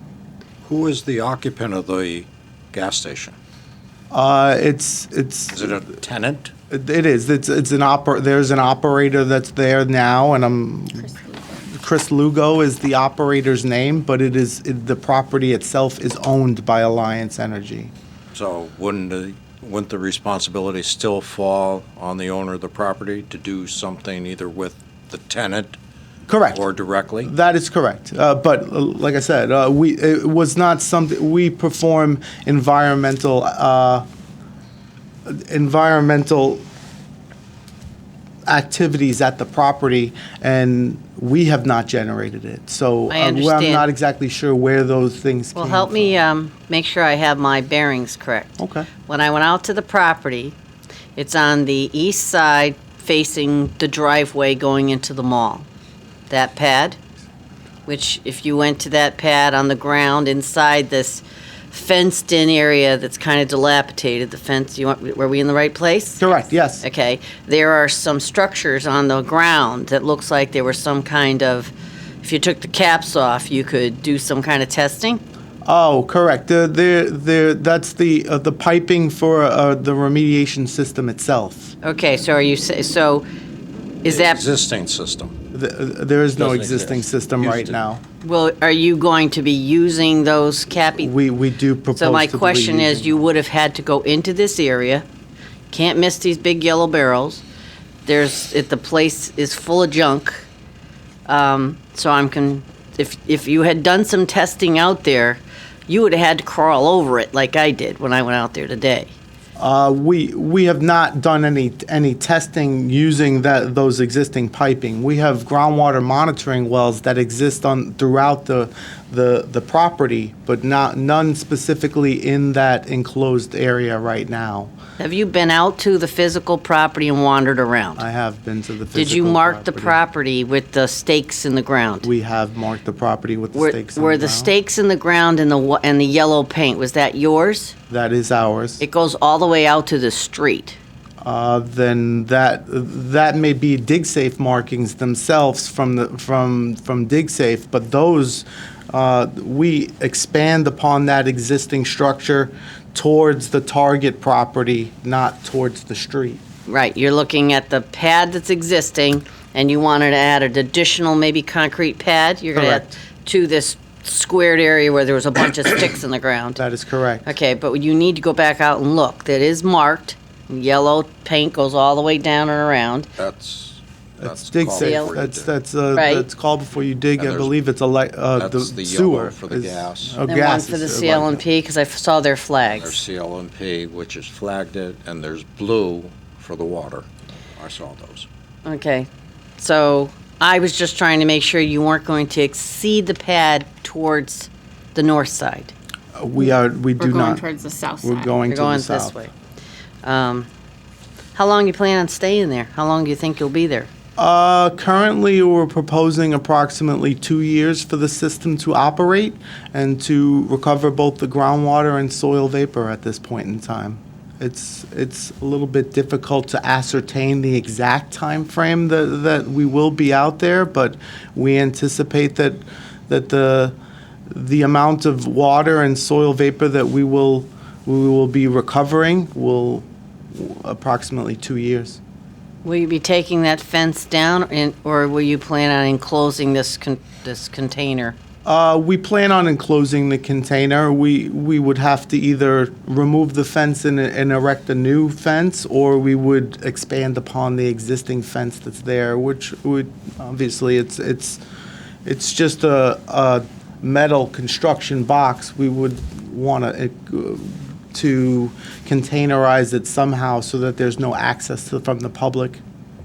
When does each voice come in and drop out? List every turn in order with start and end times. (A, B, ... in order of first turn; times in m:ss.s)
0:00.6-0:03.4 A
0:04.1-0:05.8 B
0:05.5-0:06.5 A
0:06.7-0:11.2 B
0:11.1-0:11.6 C
0:11.7-0:17.9 B
0:18.3-0:25.8 A
0:26.3-0:26.6 B
0:26.5-0:27.3 A
0:27.2-0:34.0 B
0:35.3-0:36.6 B
0:38.5-0:46.2 B
0:43.1-0:43.9 D
0:45.6-0:50.6 D
0:48.6-0:48.9 B
0:51.2-0:55.7 D
0:56.3-0:57.0 D
0:57.9-1:15.2 D
1:06.2-1:06.9 B
1:15.6-1:21.8 B
1:21.8-1:23.3 D
1:24.0-1:24.4 D
1:24.1-1:25.4 A
1:25.5-1:28.0 B
1:26.4-1:27.8 A
1:28.2-1:31.1 D
1:31.0-1:33.3 B
1:31.9-1:35.0 D
1:35.7-1:37.4 D
1:38.1-1:40.5 D
1:41.3-1:49.1 D
1:49.6-2:04.7 B
2:05.0-2:08.0 D
2:08.0-2:10.0 B
2:08.9-2:12.1 D
2:12.0-2:14.5 B
2:13.6-2:17.8 D
2:17.9-2:18.8 B
2:18.8-2:20.8 D
2:21.2-2:36.4 B
2:36.7-2:46.6 D
2:42.6-2:43.0 B
2:46.6-2:47.3 B
2:47.3-2:53.1 D
2:53.2-2:55.5 A
2:54.2-3:01.4 B
2:54.8-2:55.2 D
2:55.9-2:56.3 D
2:57.2-2:57.5 A
2:58.4-3:00.2 A
3:00.3-3:03.0 D
3:02.7-3:08.3 A
3:08.6-3:15.7 D
3:16.2-3:17.4 B
3:17.0-3:18.4 C
3:18.0-3:19.2 B
3:18.5-3:19.3 D
3:20.0-3:20.5 D
3:21.4-3:23.9 D
3:24.2-3:43.8 B
3:44.3-3:52.0 B
3:52.6-3:58.2 D
3:58.4-4:11.4 B
4:12.0-4:22.6 B